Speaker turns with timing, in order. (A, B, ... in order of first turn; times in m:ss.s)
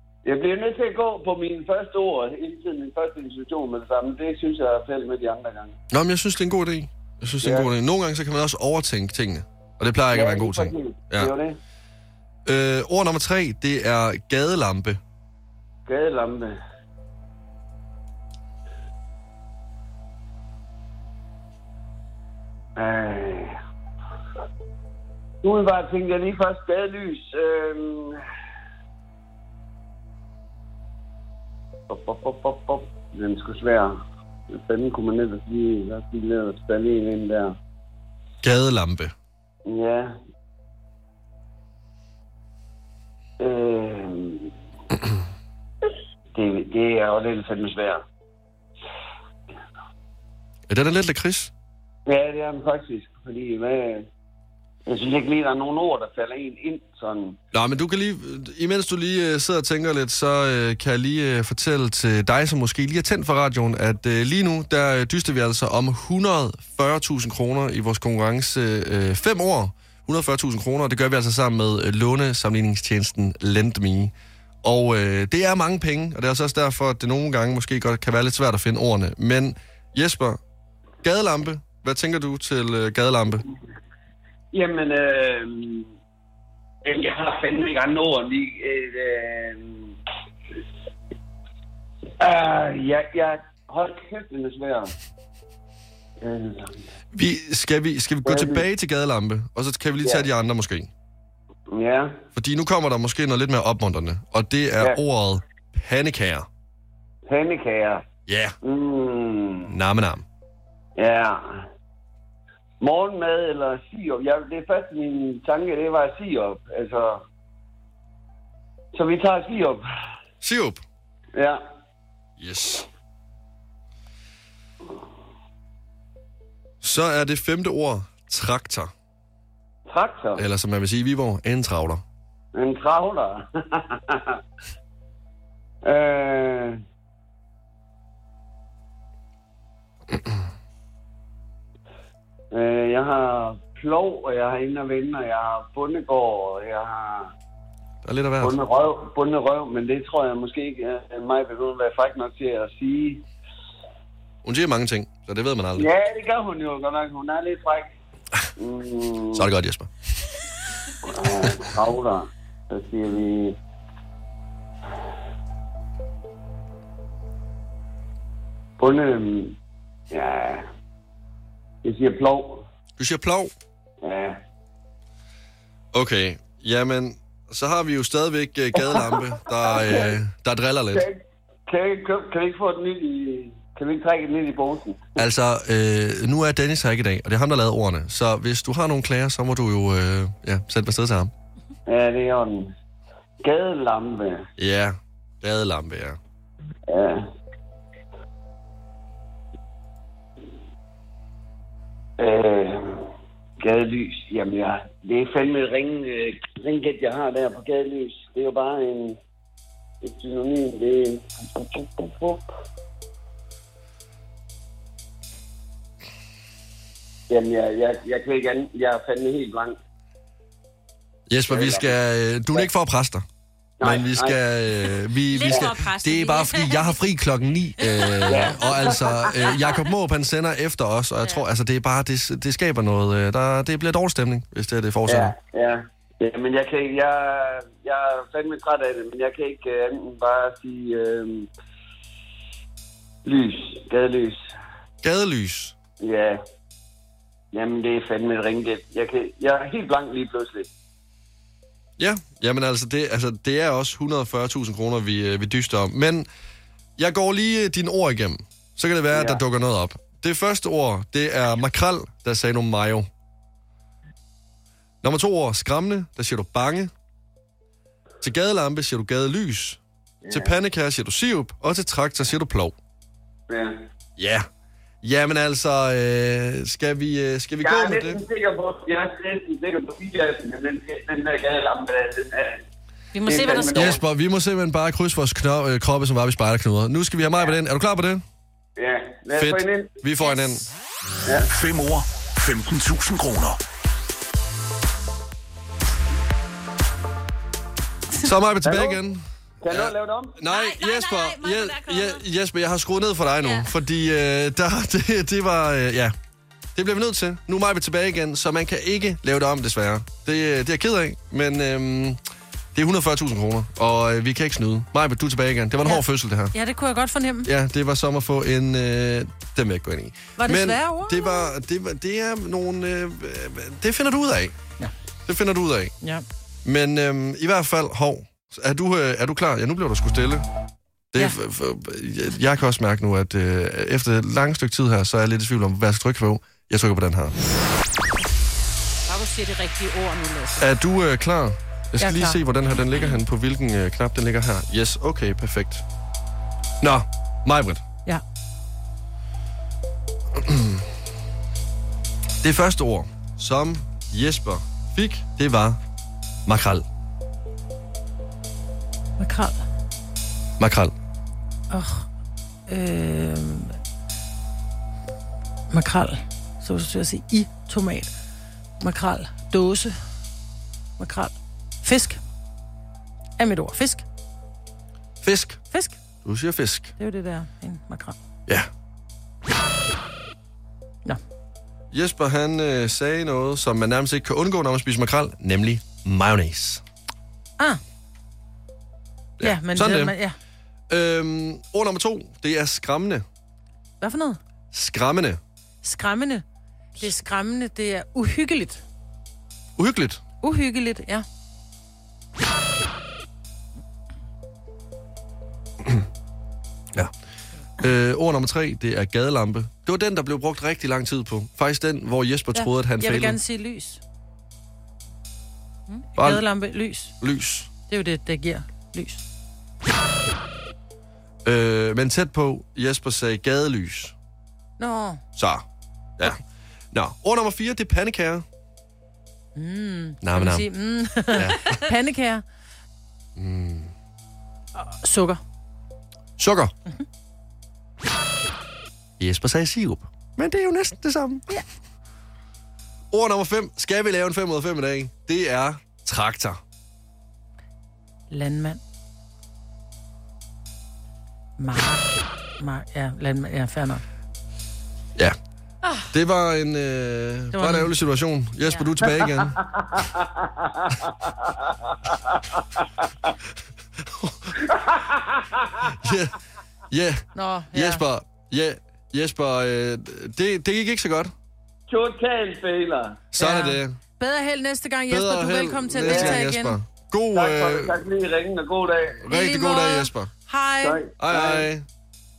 0:00.2-0:05.8 A
0:05.9-0:11.3 B
0:07.4-0:07.7 A
0:10.1-0:11.6 A
0:12.4-0:15.0 B
0:15.8-0:16.6 A
0:22.8-0:23.6 A
0:25.4-0:28.2 A
0:31.9-0:37.6 A
0:38.4-0:39.1 B
0:39.6-0:40.2 A
0:43.4-0:44.5 A
0:46.3-0:48.0 A
0:50.7-0:51.5 B
0:52.0-0:54.1 A
0:54.8-0:57.4 A
0:57.5-1:20.4 B
1:21.0-1:23.4 B
1:24.5-1:25.9 A
1:26.8-1:30.0 A
1:32.2-1:34.9 A
1:36.2-1:36.8 A
1:37.1-1:40.9 B
1:38.2-1:38.6 A
1:40.0-1:40.3 A
1:41.7-1:42.2 A
1:42.4-1:46.5 B
1:47.2-1:48.0 A
1:48.3-1:48.6 B
1:48.6-1:49.7 A
1:49.7-1:50.2 B
1:51.0-1:51.7 A
1:52.8-1:57.2 A
1:58.9-1:59.8 A
2:00.4-2:00.8 B
2:01.3-2:01.6 A
2:02.4-2:02.8 B
2:06.8-2:08.9 B
2:09.9-2:10.4 A
2:10.4-2:12.0 B
2:12.5-2:14.4 A
2:15.8-2:16.8 A
2:22.5-2:27.3 A
2:28.0-2:28.6 B
2:28.4-2:33.2 A
2:34.4-2:35.9 B
2:35.8-2:37.9 A
2:38.6-2:39.5 A
2:39.3-2:39.9 B
2:41.0-2:43.6 A
2:41.2-2:41.6 B
2:48.8-2:49.6 A
2:50.1-2:50.7 A
2:51.8-2:52.6 A
2:53.0-2:53.5 B
2:54.0-2:54.4 A
2:55.9-3:01.0 B
2:58.8-3:00.2 A
3:00.9-3:05.1 A
3:05.2-3:11.3 B
3:11.8-3:12.7 A
3:13.4-3:14.4 A
3:14.6-3:16.2 B
3:16.9-3:17.2 A
3:22.2-3:29.2 A
3:30.0-3:32.4 A
3:37.3-3:39.8 A
3:41.3-3:43.2 B
3:41.5-3:41.9 A
3:43.8-3:44.4 A
3:43.8-3:55.3 B
3:45.3-3:47.0 C
3:47.8-3:48.8 C
3:48.3-3:49.5 A
3:55.1-4:01.5 A
4:03.2-4:04.5 A
4:05.0-4:05.7 B
4:06.0-4:06.4 A
4:07.5-4:10.7 A
4:12.0-4:16.3 B
4:17.0-4:23.1 B
4:19.1-4:19.4 A
4:25.0-4:26.9 B
4:28.2-4:32.8 B
4:30.2-4:30.5 A
4:33.5-4:33.8 A
4:34.2-4:34.5 B
4:35.0-4:38.2 B
4:37.6-4:42.6 A
4:43.1-4:43.9 C
4:43.2-4:44.0 A
4:43.7-4:48.2 B
4:48.8-4:50.0 A
4:49.4-4:50.6 B
4:51.5-4:53.6 D
4:58.2-5:06.1 B
4:58.6-4:59.0 A
4:59.6-5:00.4 A
5:00.5-5:02.2 C
5:03.4-5:03.7 C
5:06.7-5:12.2 B
5:12.7-5:16.5 B
5:16.5-5:17.5 E
5:17.4-5:24.5 B
5:20.4-5:21.5 E
5:25.2-5:25.9 B
5:26.6-5:30.4 B
5:31.1-5:37.3 B
5:39.1-5:40.7 C
5:40.6-5:45.8 B
5:42.0-5:42.4 E
5:42.7-5:43.2 C
5:46.8-5:47.8 B
5:50.3-5:50.8 B
5:52.4-5:55.8 B
5:56.4-5:56.8 B
5:59.2-5:59.6 E
6:00.6-6:00.9 B
6:01.7-6:02.1 E
6:02.7-6:03.8 E
6:05.7-6:08.1 E
6:08.8-6:10.0 E
6:11.0-6:12.2 E
6:13.4-6:14.0 E
6:15.2-6:15.6 B
6:15.7-6:16.0 E
6:16.2-6:16.9 B
6:17.0-6:18.2 E
6:21.9-6:26.8 B
6:29.4-6:30.1 B
6:29.4-6:30.4 E
6:30.9-6:33.2 B
6:34.0-6:34.4 E
6:34.7-6:35.4 B
6:35.8-6:36.4 E
6:37.0-6:38.8 E
6:39.8-6:40.2 B
6:40.4-6:41.2 E
6:47.8-6:53.4 B
6:52.5-6:54.0 E
6:55.9-6:57.1 E
6:56.2-6:56.4 B
6:57.2-6:57.7 B
6:57.9-6:59.2 E
7:01.4-7:04.1 B
7:04.8-7:05.2 E
7:05.4-7:05.6 B
7:06.9-7:08.4 B
7:09.6-7:12.4 E
7:10.2-7:10.7 B
7:11.3-7:11.8 B
7:13.4-7:13.9 B
7:14.7-7:15.4 E
7:16.4-7:16.7 B
7:19.2-7:21.5 B
7:23.1-7:26.6 B
7:28.3-7:28.8 E
7:31.6-7:34.0 E
7:36.1-7:39.6 B
7:37.5-7:37.9 E
7:39.4-7:41.5 A
7:42.1-7:42.8 A
7:44.0-7:44.6 B
7:44.7-7:45.7 A
7:45.8-7:46.3 B
7:46.9-7:51.3 B
7:47.3-7:48.0 E
7:51.9-7:53.3 A
7:53.3-7:54.0 B
7:53.4-7:56.8 E
7:55.1-7:58.0 B
7:56.0-7:56.4 A
7:57.3-7:59.2 A
7:59.2-8:00.3 B
7:59.3-8:01.0 E
8:00.8-8:01.7 A
8:01.2-8:01.8 B